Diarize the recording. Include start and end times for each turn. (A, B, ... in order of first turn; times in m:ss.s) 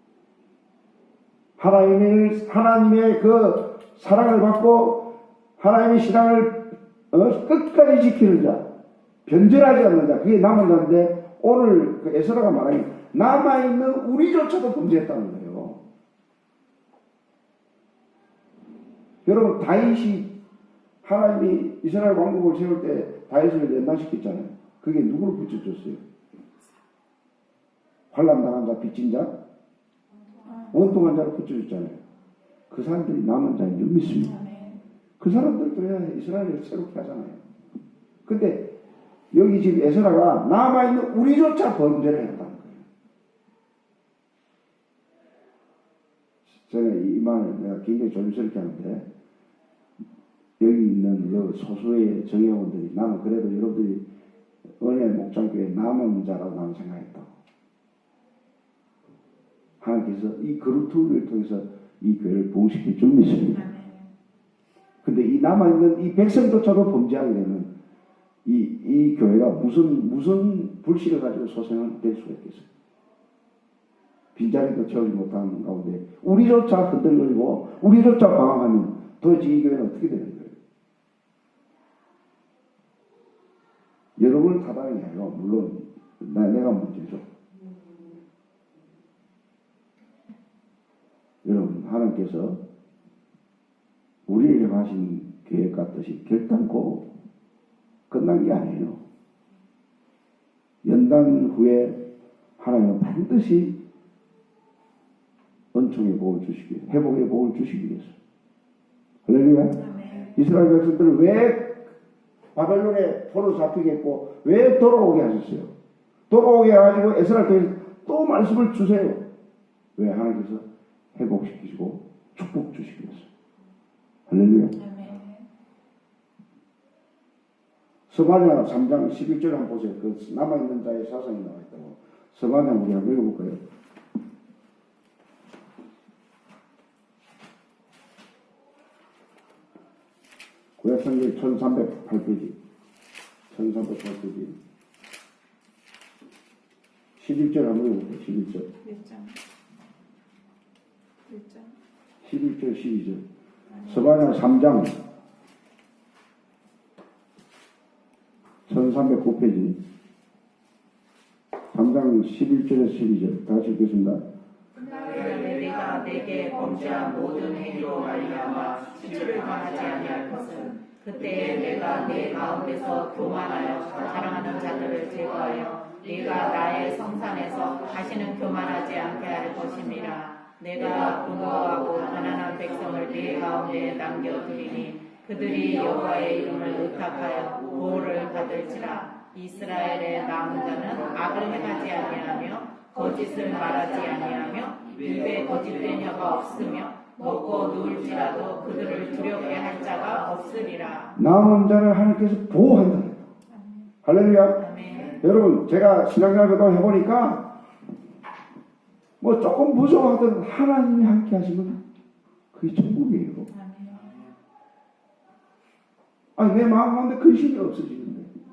0:01.6-0:08.6 A
0:09.2-0:15.8 A
0:19.2-0:20.3 A
0:21.0-0:26.0 A
0:28.1-0:29.3 A
0:30.4-0:30.7 B
0:30.7-0:32.0 A
0:32.7-0:34.4 A
0:34.3-0:34.8 B
0:35.2-0:37.4 A
0:38.2-0:38.7 A
0:39.3-0:42.8 A
0:46.5-0:49.0 A
0:50.6-0:54.0 A
0:54.8-0:57.3 A
0:59.8-1:03.7 A
1:03.5-1:04.1 B
1:05.0-1:07.7 A
1:08.4-1:12.6 A
1:14.3-1:20.5 A
1:24.2-1:27.2 A
1:31.4-1:32.6 A
1:34.3-1:37.0 A
1:38.1-1:39.0 A
1:40.8-1:42.0 A
1:42.6-1:43.8 A
1:45.7-1:48.2 A
1:49.2-1:51.9 A
1:49.8-1:50.3 B
1:52.6-1:55.7 A
1:56.3-1:59.2 A
2:00.0-2:00.6 A
2:01.1-2:03.3 A
2:04.3-2:04.7 A
2:04.8-2:05.4 B
2:08.1-2:13.6 A
2:20.8-2:22.6 A
2:23.5-2:24.6 A
2:27.2-2:28.7 A
2:28.8-2:29.4 B
2:31.3-2:31.8 B
2:32.2-2:33.2 A
2:33.7-2:34.4 B
2:33.8-2:35.0 A
2:38.7-2:39.8 A
2:41.7-2:44.2 A
2:45.0-3:21.2 B
3:21.2-3:23.3 A
3:24.0-3:24.6 A
3:24.6-3:25.2 B
3:25.2-3:27.6 A
3:29.2-3:31.8 A
3:32.5-3:33.5 A
3:33.5-3:34.2 B
3:36.4-3:38.3 A